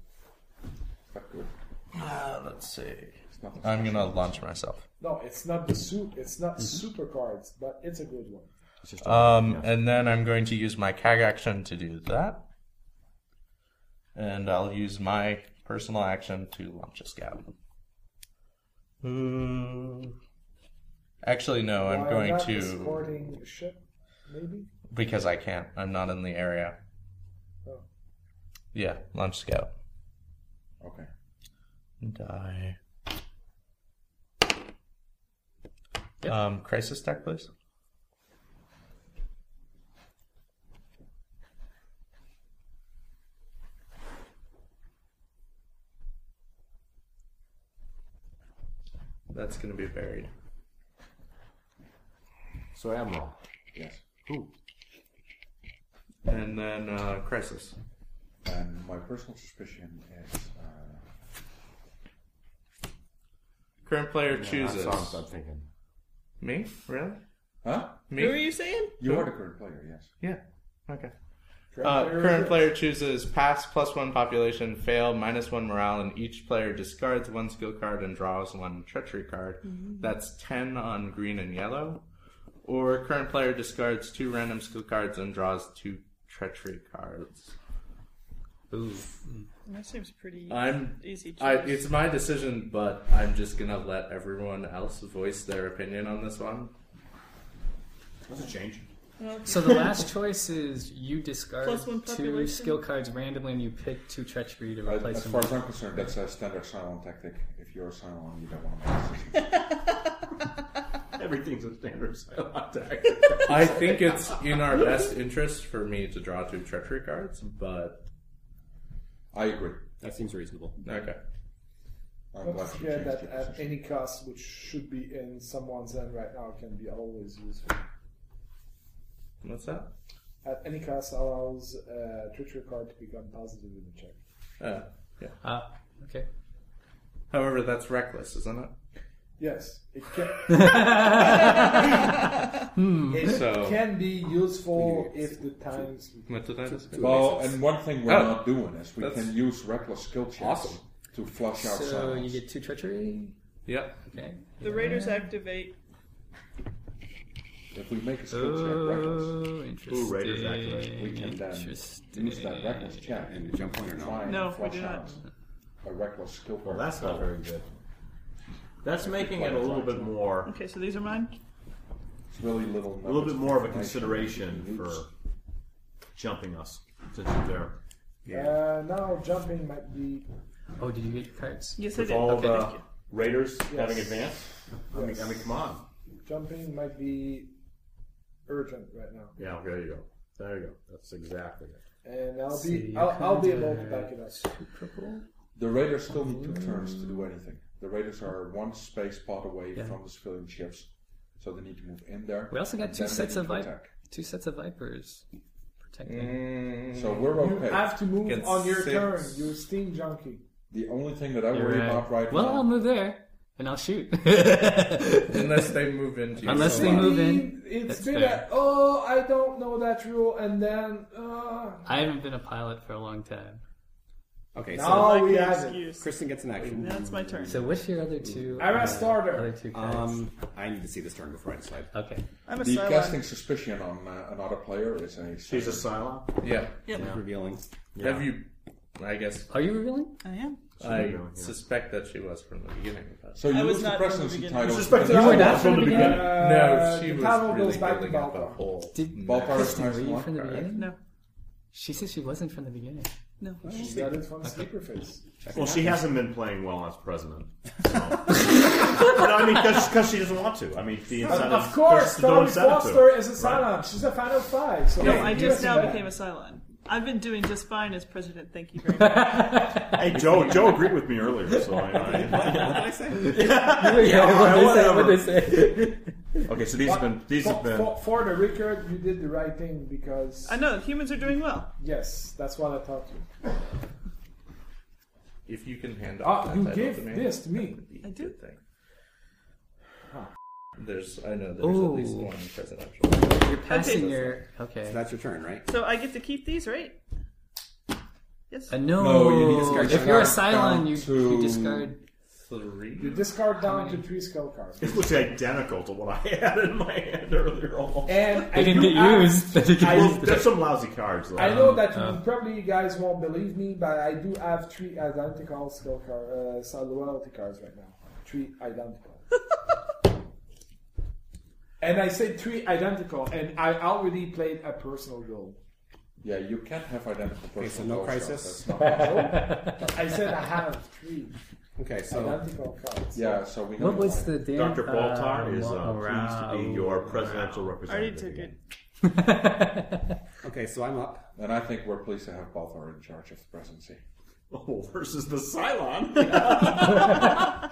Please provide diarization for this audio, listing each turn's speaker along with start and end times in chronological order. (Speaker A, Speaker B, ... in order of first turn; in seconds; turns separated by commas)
Speaker A: 1.1-1.5, Speaker B: 1.9-4.8, Speaker A: 3.3-4.3, Speaker C: 5.0-8.5, Speaker D: 8.8-9.7, Speaker B: 9.0-12.4, Speaker B: 14.1-17.5, Speaker B: 19.0-20.1, Speaker B: 21.2-23.0, Speaker C: 21.8-24.7, Speaker B: 24.9-26.8, Speaker B: 28.7-29.7, Speaker A: 30.8-31.1, Speaker B: 32.0-32.8, Speaker B: 36.2-37.5, Speaker B: 49.3-50.3, Speaker D: 52.7-53.4, Speaker A: 53.7-54.0, Speaker D: 54.2-54.5, Speaker B: 56.2-57.7, Speaker A: 58.4-61.0, Speaker B: 63.8-65.2, Speaker D: 64.3-65.7, Speaker B: 66.4-67.2, Speaker A: 67.6-68.0, Speaker B: 68.1-69.3, Speaker E: 68.1-69.0, Speaker A: 69.0-70.1, Speaker B: 70.2-71.1, Speaker C: 71.7-72.7, Speaker B: 71.8-82.0, Speaker E: 79.6-80.1, Speaker B: 82.6-87.5, Speaker F: 88.7-89.5, Speaker E: 89.7-91.8, Speaker B: 90.5-96.7, Speaker D: 98.3-98.9, Speaker E: 99.2-100.1, Speaker F: 99.5-105.6, Speaker E: 101.6-102.8, Speaker A: 104.8-109.5, Speaker D: 111.2-114.4, Speaker B: 113.4-118.0, Speaker A: 119.3-119.8, Speaker G: 120.0-120.8, Speaker B: 120.8-121.2, Speaker A: 122.3-123.8, Speaker C: 122.4-127.8, Speaker B: 129.4-129.9, Speaker C: 130.4-134.2, Speaker B: 134.6-135.3, Speaker F: 135.4-136.3, Speaker B: 137.3-138.7, Speaker C: 139.4-142.2, Speaker F: 140.5-141.4, Speaker F: 142.7-143.4, Speaker C: 143.1-147.3, Speaker B: 143.2-143.8, Speaker B: 146.2-147.1, Speaker A: 147.0-152.4, Speaker B: 148.0-149.3, Speaker B: 150.4-150.8, Speaker F: 151.6-153.3, Speaker B: 153.7-154.0, Speaker F: 154.1-155.2, Speaker E: 154.6-155.8, Speaker A: 157.7-159.4, Speaker F: 158.3-163.1, Speaker D: 159.9-161.0, Speaker A: 160.9-165.2, Speaker G: 163.2-164.3, Speaker E: 164.2-165.2, Speaker A: 165.8-167.3, Speaker D: 166.6-167.7, Speaker D: 168.8-170.5, Speaker A: 169.0-170.1, Speaker E: 170.4-171.3, Speaker A: 172.3-175.0, Speaker D: 173.0-175.1, Speaker D: 176.1-178.6, Speaker C: 178.3-180.3, Speaker F: 180.8-181.8, Speaker E: 181.8-182.8, Speaker D: 181.9-185.8, Speaker C: 183.7-184.3, Speaker C: 184.9-185.4, Speaker C: 186.2-187.5, Speaker C: 188.5-189.4, Speaker D: 189.4-191.8, Speaker C: 192.0-194.4, Speaker F: 192.5-195.2, Speaker A: 195.6-203.9, Speaker F: 196.1-197.3, Speaker F: 202.5-205.2, Speaker F: 205.8-206.5, Speaker B: 206.0-207.3, Speaker A: 206.9-208.0, Speaker C: 207.4-210.4, Speaker B: 208.2-209.4, Speaker A: 210.7-212.8, Speaker F: 211.5-215.7, Speaker B: 215.3-217.1, Speaker F: 216.4-218.4, Speaker G: 216.5-217.1, Speaker C: 216.5-221.8, Speaker F: 221.8-223.6, Speaker G: 224.5-225.2, Speaker C: 224.7-225.9, Speaker E: 224.8-226.1, Speaker G: 225.9-227.5, Speaker E: 226.7-227.6, Speaker F: 227.5-230.2, Speaker G: 228.2-228.8, Speaker C: 228.6-229.6, Speaker G: 229.7-231.9, Speaker F: 231.9-232.2, Speaker E: 232.4-233.2, Speaker A: 232.6-235.9, Speaker D: 235.5-237.2, Speaker B: 236.4-236.8, Speaker E: 236.8-237.1, Speaker G: 236.9-237.6, Speaker D: 237.9-238.4, Speaker B: 238.0-239.5, Speaker F: 239.5-240.2, Speaker E: 240.2-240.6, Speaker D: 240.8-241.5, Speaker B: 240.8-243.4, Speaker A: 243.3-246.0, Speaker E: 243.4-245.3, Speaker D: 244.6-246.5, Speaker F: 245.0-246.3, Speaker C: 245.1-248.6, Speaker B: 246.2-249.7, Speaker F: 248.9-250.9, Speaker A: 249.2-250.7, Speaker E: 250.7-251.0, Speaker F: 251.7-253.1, Speaker E: 253.4-253.7, Speaker G: 253.6-254.2, Speaker C: 253.7-255.2, Speaker F: 254.4-254.7, Speaker G: 255.4-256.0, Speaker D: 255.5-263.8, Speaker C: 261.2-266.1, Speaker E: 264.9-269.7, Speaker F: 269.0-270.9, Speaker D: 269.8-275.4, Speaker F: 271.4-276.4, Speaker G: 272.0-274.6, Speaker D: 276.4-277.9, Speaker C: 276.8-280.6, Speaker E: 280.4-281.7, Speaker C: 281.8-283.3, Speaker B: 285.4-288.6, Speaker C: 286.2-287.8, Speaker E: 288.0-288.3, Speaker B: 290.8-294.3, Speaker F: 291.6-292.3, Speaker F: 293.1-295.0, Speaker E: 293.7-294.2, Speaker G: 294.9-295.6, Speaker E: 295.6-297.0, Speaker E: 298.5-298.8, Speaker F: 298.7-302.0, Speaker A: 298.9-301.9, Speaker G: 299.7-300.4, Speaker B: 302.4-303.3, Speaker C: 303.0-305.4, Speaker F: 303.6-304.0, Speaker D: 304.8-308.3, Speaker C: 308.0-310.7, Speaker F: 308.4-310.6, Speaker D: 309.7-311.8, Speaker C: 311.3-319.2, Speaker F: 311.4-312.2, Speaker C: 321.8-325.6, Speaker A: 326.2-329.6, Speaker G: 327.6-328.7, Speaker F: 328.8-329.9, Speaker C: 328.8-331.4, Speaker G: 331.8-332.4, Speaker C: 332.1-333.5, Speaker A: 333.1-334.4, Speaker F: 333.8-337.4, Speaker D: 334.5-338.6, Speaker E: 337.8-338.6, Speaker F: 339.0-340.2, Speaker G: 340.4-341.3, Speaker A: 341.4-344.0, Speaker D: 344.5-347.5